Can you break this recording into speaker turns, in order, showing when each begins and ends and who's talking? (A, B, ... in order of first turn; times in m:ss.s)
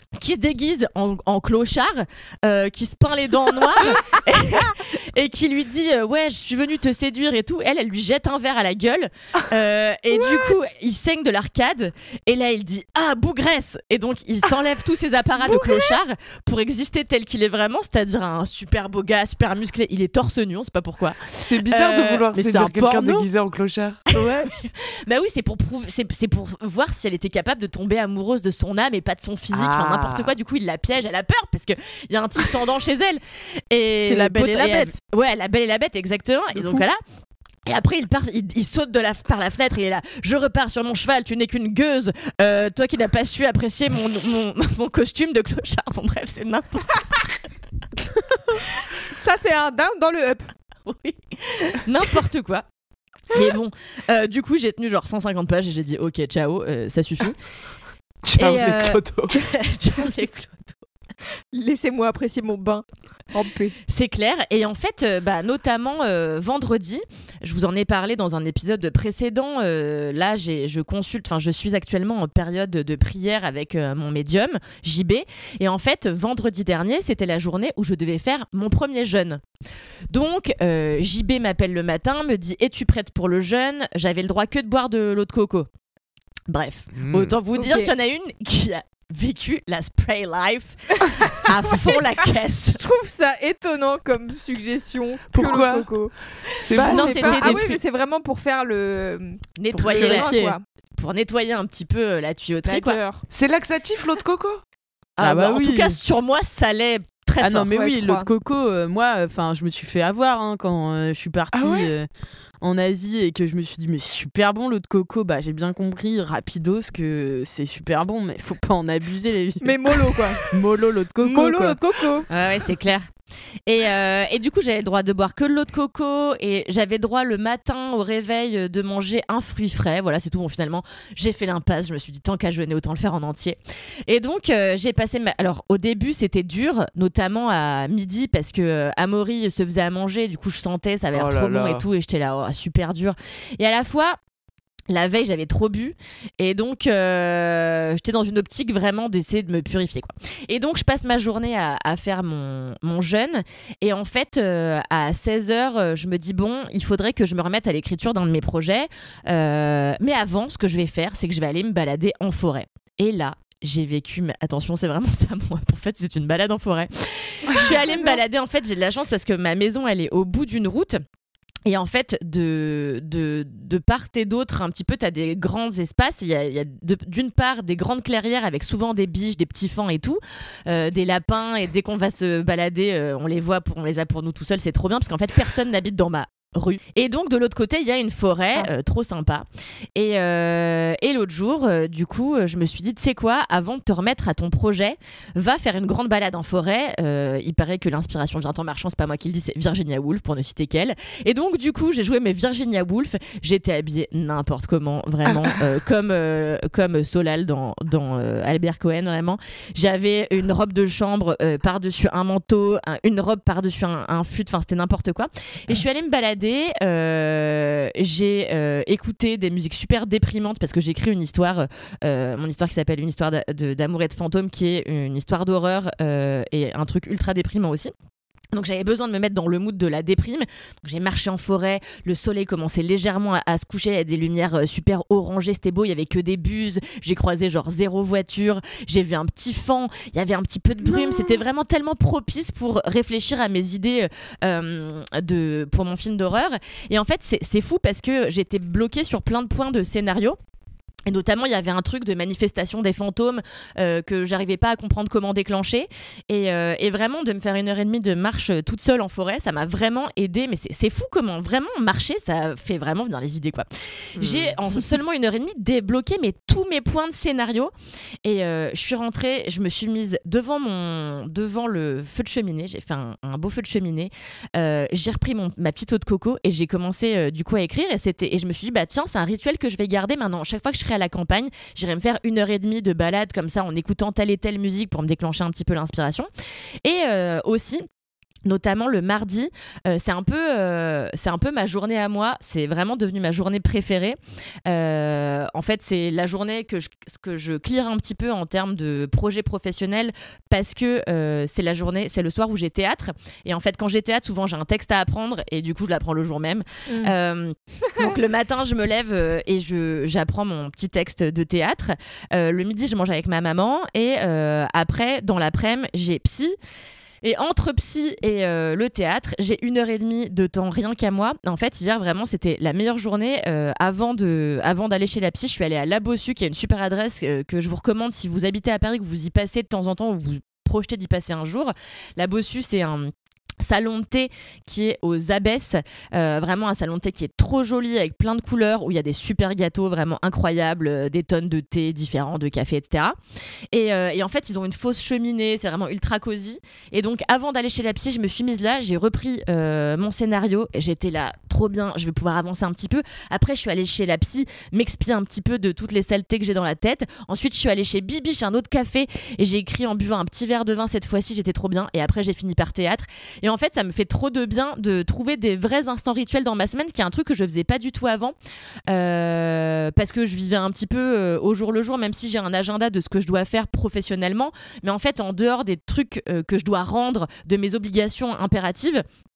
0:00.2-0:22.2 A
0:10.1-0:10.5 B
0:15.4-0:16.0 B
0:21.4-0:24.0 C
0:22.3-0:23.3 D
0:24.1-0:37.0 A
0:29.5-0:30.3 C
0:34.0-0:35.0 D
0:37.7-0:47.0 A
0:48.6-0:50.5 B
0:50.9-0:52.7 A
0:53.3-0:57.4 A
0:58.2-0:59.4 C
0:58.4-1:00.8 A
1:01.5-1:03.8 B
1:03.9-1:19.4 A
1:20.1-1:25.7 A
1:26.5-1:32.8 A
1:26.9-1:27.4 C
1:27.6-1:27.9 B
1:32.7-1:36.1 B
1:35.3-1:35.9 C
1:36.6-1:37.6 C
1:36.7-1:37.7 A
1:36.7-1:40.6 B
1:39.6-1:40.4 A
1:39.7-1:40.6 D
1:41.0-1:43.0 A
1:42.6-1:43.2 B
1:43.3-1:44.6 C
1:45.2-1:48.0 A
1:45.2-1:46.0 D
1:47.4-1:52.1 D
1:47.7-1:48.3 B
1:51.5-1:51.9 C
1:52.6-2:01.8 D
1:59.6-2:00.4 B
2:01.2-2:02.3 B
2:02.3-2:03.1 A
2:03.7-2:24.2 A
2:21.1-2:21.9 C
2:24.9-2:51.0 A
2:51.7-3:47.9 A
3:25.3-3:25.6 C
3:48.5-4:10.4 A
4:11.1-4:27.7 A
4:24.2-4:24.6 C
4:28.2-4:46.3 A
4:46.8-4:47.9 A
4:48.4-5:16.6 A
5:06.9-5:07.1 B
5:17.2-5:43.2 A
5:43.7-6:08.4 A
6:08.9-6:19.0 A